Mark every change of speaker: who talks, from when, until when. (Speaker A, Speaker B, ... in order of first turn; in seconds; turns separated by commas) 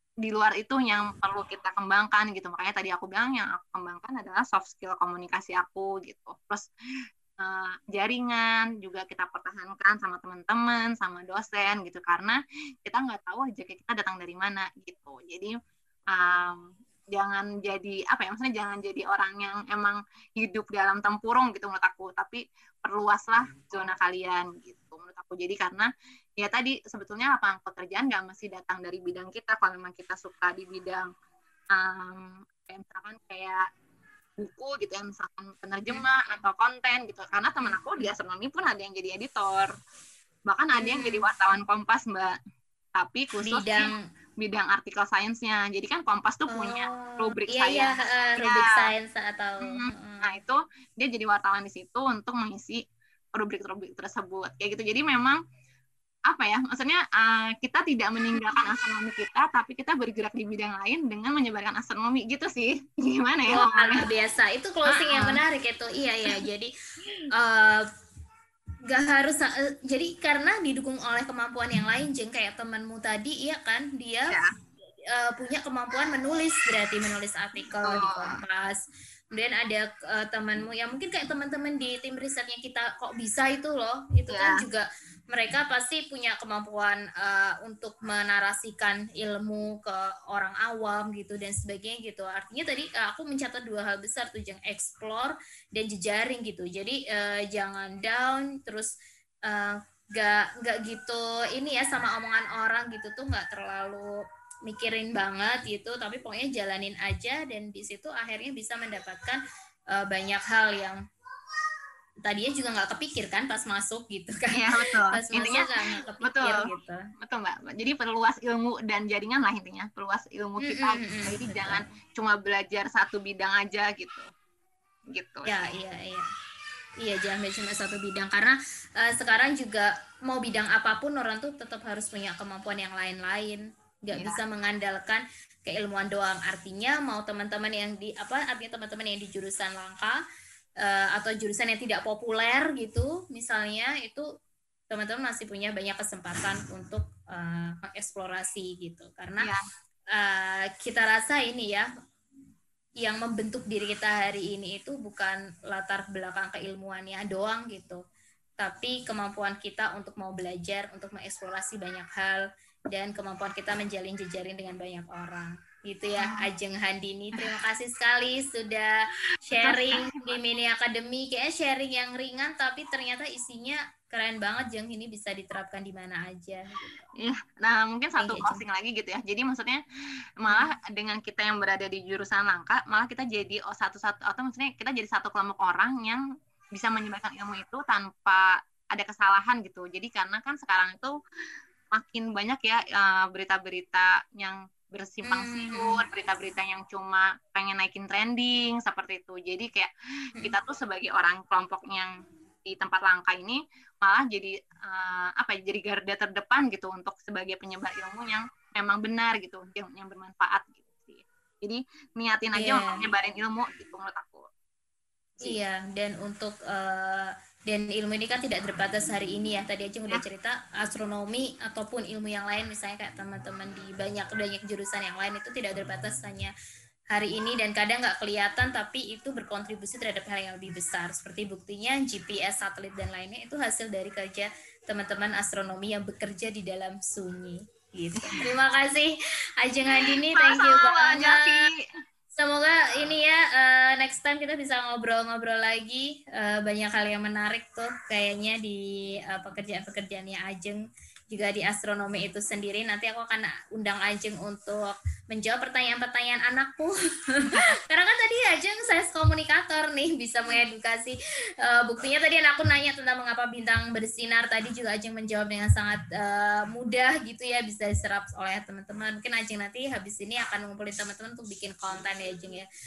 Speaker A: 0.2-6.7, Speaker A: 7.4-15.5, Speaker A: 16.1-25.9, Speaker A: 26.4-31.1, Speaker A: 31.7-33.6, Speaker A: 34.4-39.7, Speaker A: 40.5-42.3, Speaker B: 40.8-41.2, Speaker A: 43.0-48.9, Speaker B: 43.5-44.0, Speaker B: 46.5-50.3, Speaker A: 49.6-52.8, Speaker A: 53.4-55.4, Speaker A: 56.3-64.0, Speaker B: 58.2-58.6, Speaker B: 63.5-66.7, Speaker A: 64.9-65.4, Speaker B: 67.3-67.8, Speaker B: 68.9-74.4, Speaker B: 75.1-78.8, Speaker A: 77.8-78.4, Speaker B: 79.3-98.9, Speaker A: 84.3-84.6, Speaker B: 99.5-109.4, Speaker B: 109.9-111.0, Speaker B: 112.2-117.0, Speaker A: 114.5-115.7, Speaker A: 116.2-116.6, Speaker A: 117.2-124.3, Speaker B: 120.6-121.8, Speaker A: 125.1-125.6, Speaker B: 125.5-126.3, Speaker B: 127.0-140.2, Speaker A: 134.1-134.4, Speaker B: 140.8-144.2, Speaker B: 144.9-149.4, Speaker B: 150.2-151.9, Speaker B: 153.0-158.0, Speaker B: 158.6-168.9, Speaker B: 169.5-177.0, Speaker A: 169.6-170.3, Speaker A: 177.2-179.8, Speaker B: 178.2-178.6, Speaker A: 180.4-186.2, Speaker A: 186.8-191.2, Speaker A: 191.9-202.1, Speaker B: 195.2-196.0, Speaker A: 202.6-214.5, Speaker B: 212.6-213.0, Speaker B: 215.4-226.5, Speaker B: 227.1-241.6, Speaker A: 238.2-238.5, Speaker A: 240.0-241.8, Speaker B: 242.4-272.7